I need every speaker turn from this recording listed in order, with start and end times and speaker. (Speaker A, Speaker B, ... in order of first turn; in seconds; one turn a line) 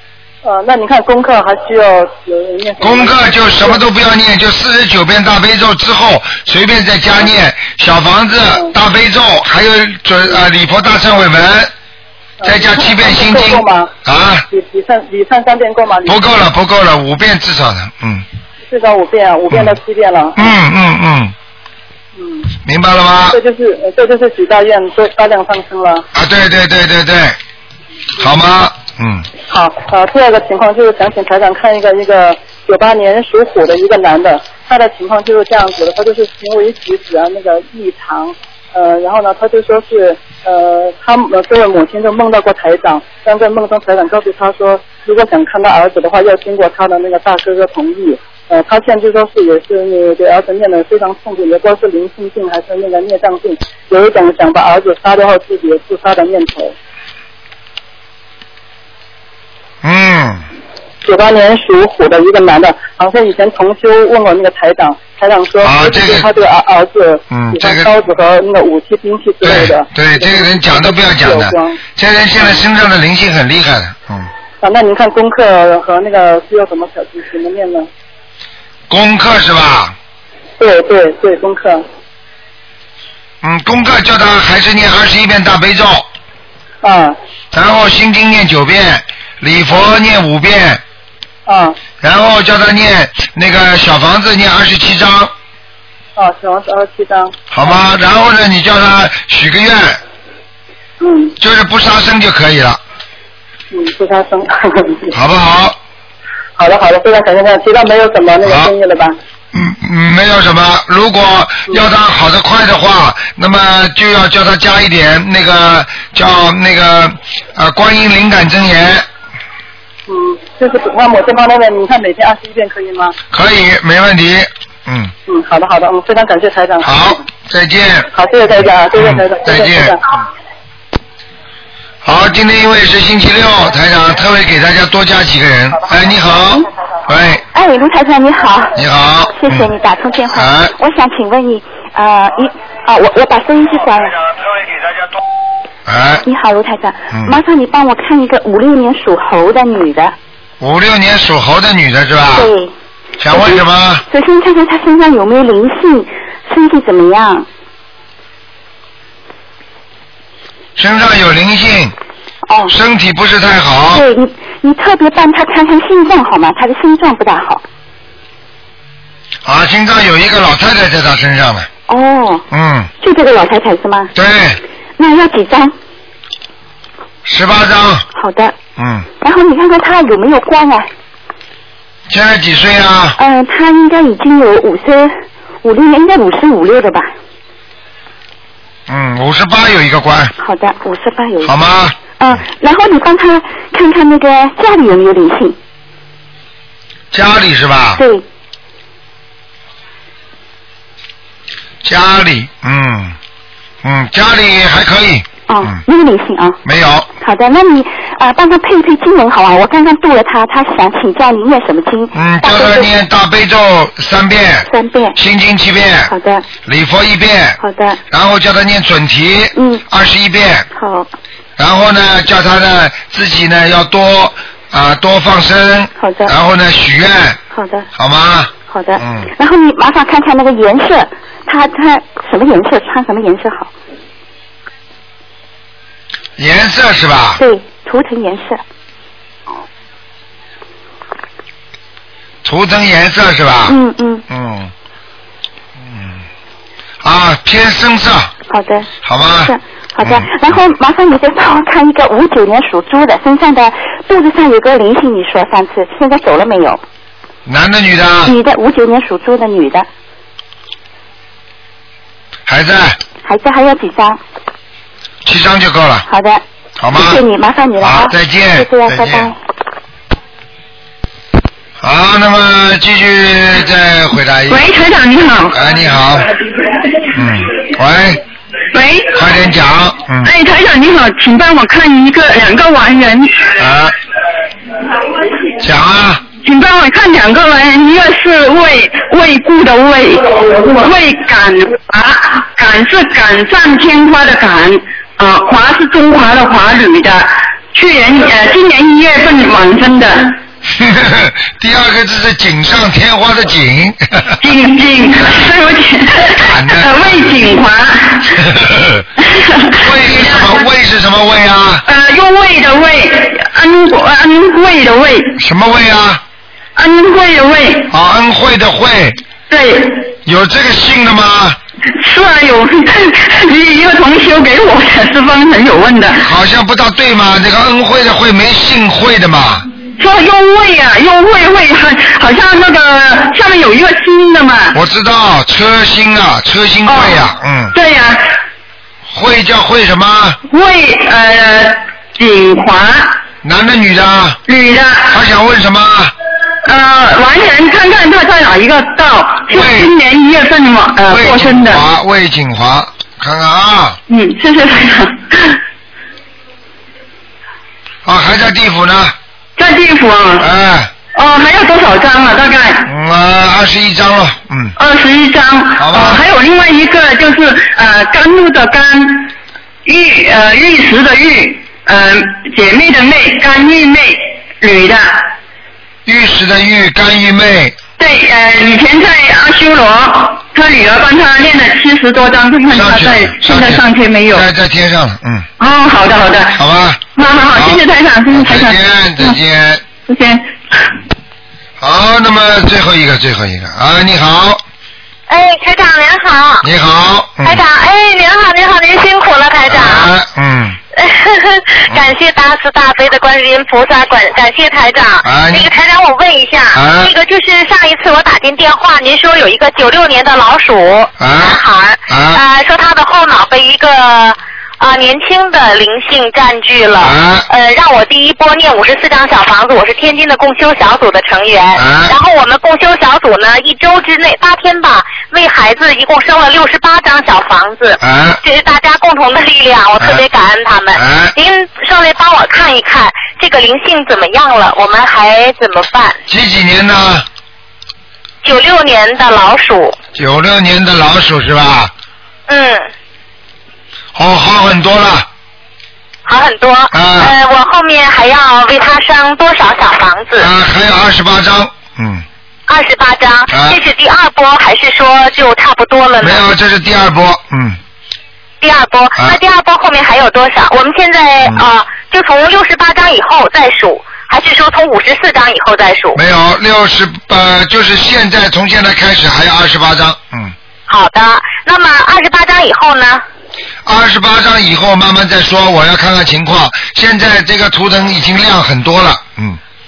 Speaker A: 0.4-3.8
Speaker B: 2.8-11.7
Speaker A: 12.4-13.9
Speaker B: 12.4-14.5
Speaker A: 14.5-16.3
Speaker B: 16.1-18.2
Speaker A: 18.7-20.6
Speaker B: 20.4-21.3
Speaker A: 22.2-22.5
Speaker B: 22.6-23.4
Speaker A: 23.3-26.1
Speaker B: 26.1-27.4
Speaker B: 28.2-29.3
Speaker A: 29.5-56.8
Speaker B: 59.8-60.4
Speaker A: 61.0-71.8
Speaker B: 65.6-66.3
Speaker B: 67.3-67.9
Speaker B: 69.4-74.3
Speaker A: 74.6-77.9
Speaker B: 78.9-80.0
Speaker A: 80.6-81.8
Speaker B: 83.4-86.1
Speaker A: 86.8-87.2
Speaker B: 87.5-90.8
Speaker A: 91.5-91.8
Speaker B: 92.0-95.3
Speaker A: 96.2-97.4
Speaker B: 97.5-100.0
Speaker A: 101.0-101.3
Speaker B: 101.4-102.8
Speaker A: 103.7-105.1
Speaker B: 105.1-105.8
Speaker A: 106.6-109.2
Speaker B: 109.5-119.1
Speaker A: 120.1-123.2
Speaker B: 123.3-125.1
Speaker A: 125.3-127.2
Speaker B: 126.8-128.1
Speaker A: 128.1-130.0
Speaker B: 129.0-130.2
Speaker B: 132.0-137.4
Speaker C: 137.5-138.8
Speaker B: 138.8-139.7
Speaker C: 139.3-144.2
Speaker B: 140.3-140.7
Speaker B: 145.9-146.2
Speaker C: 146.2-150.1
Speaker B: 147.1-147.4
Speaker B: 150.6-152.5
Speaker C: 152.3-152.7
Speaker B: 153.2-154.0
Speaker C: 153.3-157.5
Speaker B: 160.8-161.9
Speaker C: 162.5-162.7
Speaker B: 162.7-164.1
Speaker C: 163.9-167.6
Speaker B: 169.4-171.7
Speaker C: 171.9-172.5
Speaker B: 172.5-172.9
Speaker C: 173.0-174.1
Speaker B: 174.2-174.6
Speaker C: 175.0-175.7
Speaker B: 177.2-178.1
Speaker C: 178.2-178.6
Speaker B: 178.8-179.1
Speaker C: 179.2-180.9
Speaker B: 182.1-183.2
Speaker C: 183.2-187.1
Speaker B: 188.9-190.3
Speaker C: 190.4-191.6
Speaker B: 191.4-192.0
Speaker C: 192.2-195.6
Speaker B: 197.1-198.0
Speaker C: 198.0-198.2
Speaker B: 201.8-203.2
Speaker B: 203.8-205.8
Speaker C: 205.5-206.6
Speaker B: 206.7-207.1
Speaker C: 207.2-212.9
Speaker B: 212.1-216.1
Speaker C: 214.7-215.2
Speaker C: 216.1-216.5
Speaker B: 216.7-217.6
Speaker C: 217.6-218.0
Speaker B: 218.1-220.7
Speaker C: 219.6-219.8
Speaker C: 220.7-221.1
Speaker B: 221.6-227.4
Speaker C: 226.0-226.3
Speaker C: 227.5-227.9
Speaker B: 228.0-229.3
Speaker C: 228.7-233.7
Speaker B: 236.4-237.4
Speaker C: 237.4-238.6
Speaker B: 242.4-243.8
Speaker C: 243.7-244.2
Speaker B: 244.3-244.7
Speaker B: 245.8-246.2
Speaker B: 247.0-248.3
Speaker C: 248.5-248.9
Speaker B: 249.0-250.3
Speaker C: 249.4-256.8
Speaker B: 257.5-258.4
Speaker C: 258.3-259.9
Speaker B: 262.5-263.0
Speaker C: 263.2-264.2
Speaker B: 265.2-266.1
Speaker C: 266.1-269.4
Speaker B: 266.8-267.2
Speaker B: 267.8-269.3
Speaker B: 271.8-274.7
Speaker D: 274.5-275.6
Speaker B: 275.5-276.3
Speaker B: 277.1-278.2
Speaker D: 278.7-279.1
Speaker B: 279.1-280.3
Speaker D: 280.2-283.5
Speaker B: 283.6-284.0
Speaker B: 285.6-286.2
Speaker D: 286.4-300.4
Speaker B: 300.7-304.4
Speaker D: 304.4-308.4
Speaker B: 306.3-307.3
Speaker B: 308.4-309.1
Speaker D: 309.6-310.6
Speaker B: 309.8-311.9
Speaker D: 311.9-315.4
Speaker B: 315.4-316.2
Speaker D: 316.8-317.9
Speaker B: 317.9-319.2
Speaker D: 319.5-320.1
Speaker B: 320.2-321.6
Speaker D: 322.0-326.2
Speaker B: 326.2-329.7
Speaker D: 330.0-334.8
Speaker B: 334.7-337.8
Speaker D: 336.9-338.2
Speaker B: 339.1-340.4
Speaker D: 340.5-343.2
Speaker B: 343.4-344.4
Speaker D: 344.5-345.1
Speaker B: 345.1-346.1
Speaker D: 346.6-351.8
Speaker B: 349.5-349.9
Speaker B: 351.1-354.0
Speaker D: 354.1-355.4
Speaker B: 358.1-359.2
Speaker D: 359.6-360.4
Speaker B: 360.4-360.9
Speaker D: 361.1-362.9
Speaker B: 362.9-364.8
Speaker D: 364.8-369.3
Speaker B: 365.8-366.3
Speaker D: 369.9-375.2
Speaker B: 376.1-377.8
Speaker D: 378.0-384.4
Speaker B: 382.7-385.5
Speaker D: 385.6-386.6
Speaker B: 386.5-389.9
Speaker D: 387.1-389.3
Speaker D: 390.1-390.4
Speaker B: 391.8-394.6
Speaker E: 395.3-396.6
Speaker B: 396.6-397.6
Speaker E: 397.4-400.1
Speaker B: 399.6-400.8
Speaker E: 401.0-436.2
Speaker B: 405.2-405.7
Speaker B: 406.7-407.1
Speaker B: 411.2-412.4
Speaker B: 417.0-417.5
Speaker B: 421.8-422.2
Speaker B: 428.0-428.4
Speaker B: 430.0-430.2
Speaker B: 430.9-431.4
Speaker B: 436.3-437.3
Speaker E: 438.4-440.0
Speaker B: 440.1-441.9
Speaker E: 442.5-442.9
Speaker B: 444.1-445.3
Speaker E: 446.3-450.5
Speaker B: 446.9-447.4
Speaker B: 450.4-452.2
Speaker E: 452.7-456.5
Speaker B: 453.5-453.8
Speaker B: 456.2-457.8
Speaker E: 458.6-466.2
Speaker B: 466.2-470.6
Speaker E: 470.9-473.2
Speaker B: 473.9-479.6